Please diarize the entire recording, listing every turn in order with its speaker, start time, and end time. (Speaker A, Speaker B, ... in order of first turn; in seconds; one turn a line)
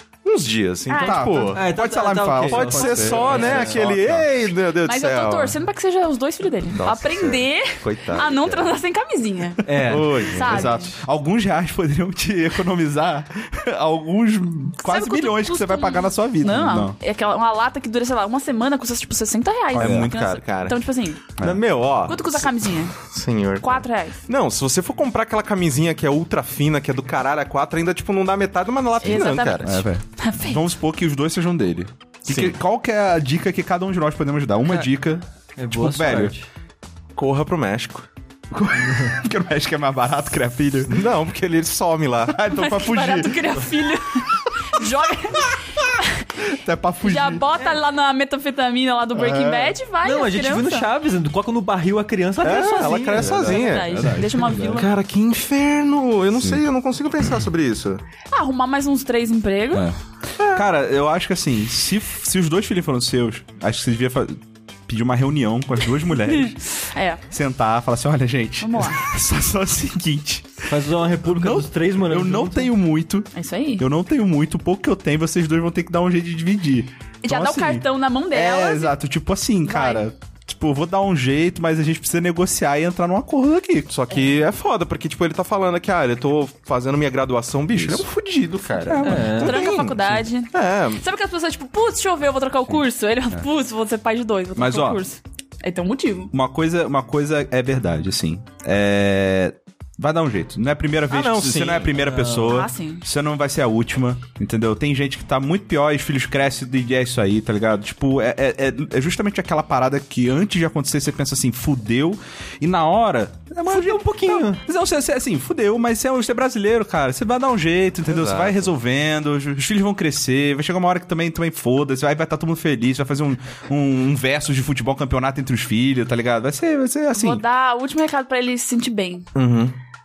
Speaker A: 0.2-1.6
Speaker B: 0.9-2.1
Speaker C: 1.0-4.5
Speaker D: 1.5-3.9
Speaker A: 2.5-5.6
Speaker B: 2.9-3.5
Speaker B: 4.8-11.0
Speaker A: 6.7-8.8
Speaker D: 9.6-10.2
Speaker A: 9.8-10.7
Speaker C: 10.4-16.9
Speaker B: 14.8-21.2
Speaker A: 19.7-20.8
Speaker C: 19.8-20.1
Speaker A: 21.4-29.8
Speaker B: 22.1-23.0
Speaker B: 23.6-24.2
Speaker B: 29.0-30.7
Speaker C: 29.6-36.3
Speaker A: 32.2-32.5
Speaker D: 35.6-36.5
Speaker A: 37.1-38.1
Speaker C: 38.5-41.0
Speaker A: 40.9-42.4
Speaker C: 42.3-43.6
Speaker B: 42.5-46.3
Speaker C: 46.5-47.5
Speaker B: 47.0-50.9
Speaker C: 49.1-49.8
Speaker D: 50.0-53.5
Speaker A: 52.4-58.0
Speaker C: 52.7-54.8
Speaker B: 53.4-54.9
Speaker B: 58.3-59.9
Speaker A: 60.4-60.6
Speaker C: 60.5-66.6
Speaker B: 66.4-67.2
Speaker C: 67.3-70.7
Speaker B: 68.6-69.0
Speaker D: 70.7-72.7
Speaker C: 71.3-83.9
Speaker B: 73.3-73.9
Speaker B: 77.2-79.0
Speaker B: 79.6-80.1
Speaker A: 83.9-91.0
Speaker C: 87.7-89.5
Speaker D: 89.0-89.7
Speaker B: 89.4-96.3
Speaker C: 94.5-95.0
Speaker C: 96.3-127.4
Speaker A: 101.1-102.0
Speaker D: 101.9-102.6
Speaker B: 102.4-103.0
Speaker D: 113.6-114.6
Speaker A: 118.1-118.7
Speaker B: 127.1-129.3
Speaker A: 129.3-129.8